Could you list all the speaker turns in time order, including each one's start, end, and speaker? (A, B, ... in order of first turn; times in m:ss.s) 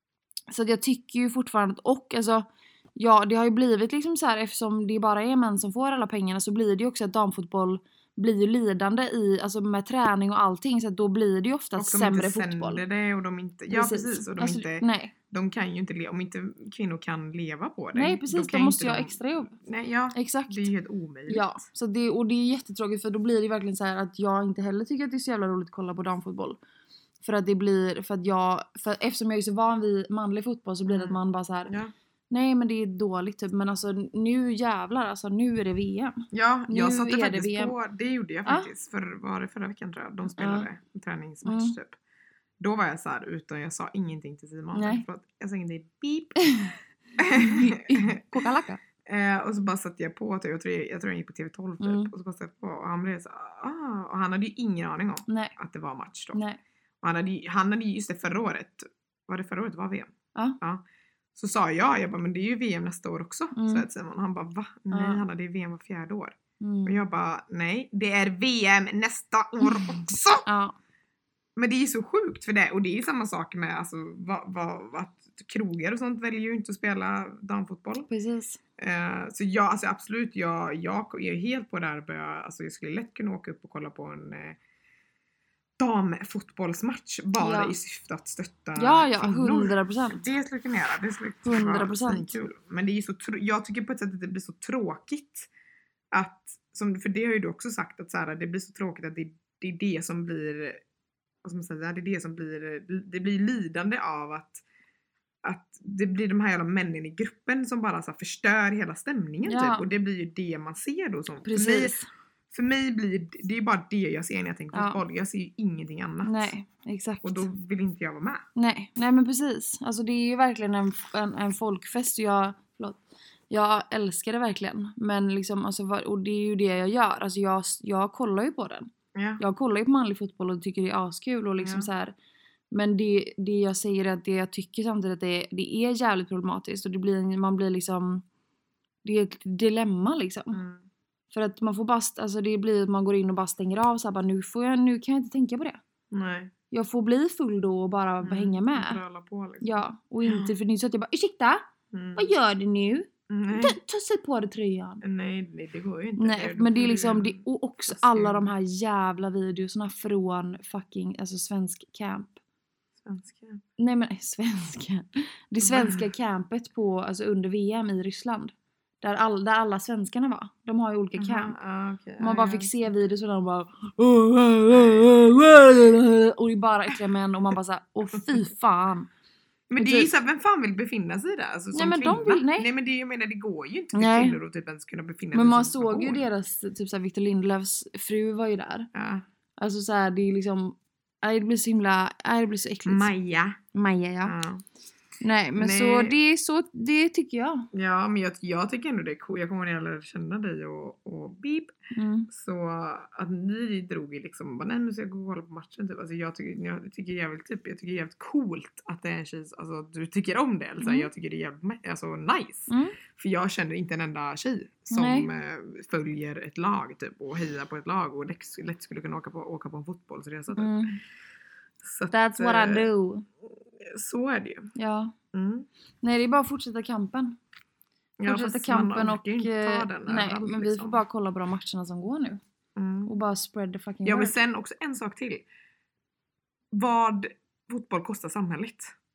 0:00.5-0:12.8 A
0:11.8-0:21.6 B
0:13.7-0:15.1 A
0:18.0-0:19.6 A
0:20.1-0:20.7 A
0:21.3-0:26.6 A
0:27.2-0:31.7 A
0:30.9-0:31.9 B
0:32.3-0:37.7 A
0:36.3-0:42.0 B
0:40.4-0:40.7 A
0:41.4-0:41.8 A
0:42.6-0:46.5 B
0:44.7-0:45.0 A
0:46.4-0:46.8 A
0:47.2-0:48.2 B
0:47.3-0:48.8 A
0:49.0-0:56.4 B
0:51.8-0:52.1 A
0:55.3-0:55.6 A
0:56.3-0:56.6 A
0:57.0-1:00.8 B
1:01.4-1:10.5 B
1:03.6-1:03.9 A
1:04.9-1:05.2 A
1:06.6-1:07.0 A
1:10.5-1:10.8 A
1:11.6-1:18.1 B
1:18.1-1:18.6 A
1:18.8-1:24.6 B
1:25.8-1:35.5 B
1:27.4-1:27.8 A
1:28.8-1:30.2 A
1:31.4-1:32.4 A
1:36.1-1:40.8 B
1:41.4-1:44.6 B
1:45.4-1:52.0 B
1:49.5-1:49.9 A
1:51.4-1:52.1 A
1:52.5-1:56.5 B
1:54.7-1:55.0 A
1:56.2-1:57.5 A
1:57.2-1:58.4 B
1:58.6-2:12.2 A
2:09.2-2:09.4 B
2:11.6-2:11.9 B
2:12.7-2:18.2 A
2:19.0-2:20.6 A
2:20.5-2:20.8 B
2:21.3-2:25.8 A
2:26.1-2:26.5 B
2:26.7-2:29.0 A
2:28.2-2:30.5 B
2:29.6-2:35.0 A
2:31.9-2:32.3 B
2:33.3-2:33.8 B
2:35.0-2:38.5 B
2:36.2-2:42.4 A
2:43.0-2:43.6 B
2:43.8-2:51.6 A
2:45.6-2:46.1 B
2:51.2-2:53.0 B
2:52.2-2:59.1 A
2:54.7-2:55.1 B
2:59.7-3:06.3 B
2:59.8-3:00.1 A
3:01.7-3:02.7 A
3:03.9-3:04.4 A
3:05.3-3:08.9 A
3:08.9-3:09.2 B
3:09.6-3:13.1 A
3:12.9-3:13.6 B
3:13.7-3:14.4 A
3:14.2-3:14.7 B
3:15.2-3:17.7 A
3:15.6-3:16.2 B
3:17.7-3:21.7 B
3:21.9-3:22.3 A
3:22.3-3:40.9 B
3:30.8-3:31.1 A
3:32.7-3:33.0 A
3:34.9-3:35.3 A
3:40.6-3:41.0 A
3:41.8-3:42.9 B
3:42.1-3:43.3 A
3:43.8-3:44.7 B
3:44.8-3:45.2 A
3:45.3-3:45.7 B
3:46.0-3:47.4 A
3:48.2-3:51.0 B
3:48.2-3:52.4 A
3:52.8-3:53.1 B
3:53.1-3:54.4 A
3:54.0-3:55.4 B
3:56.7-3:59.0 B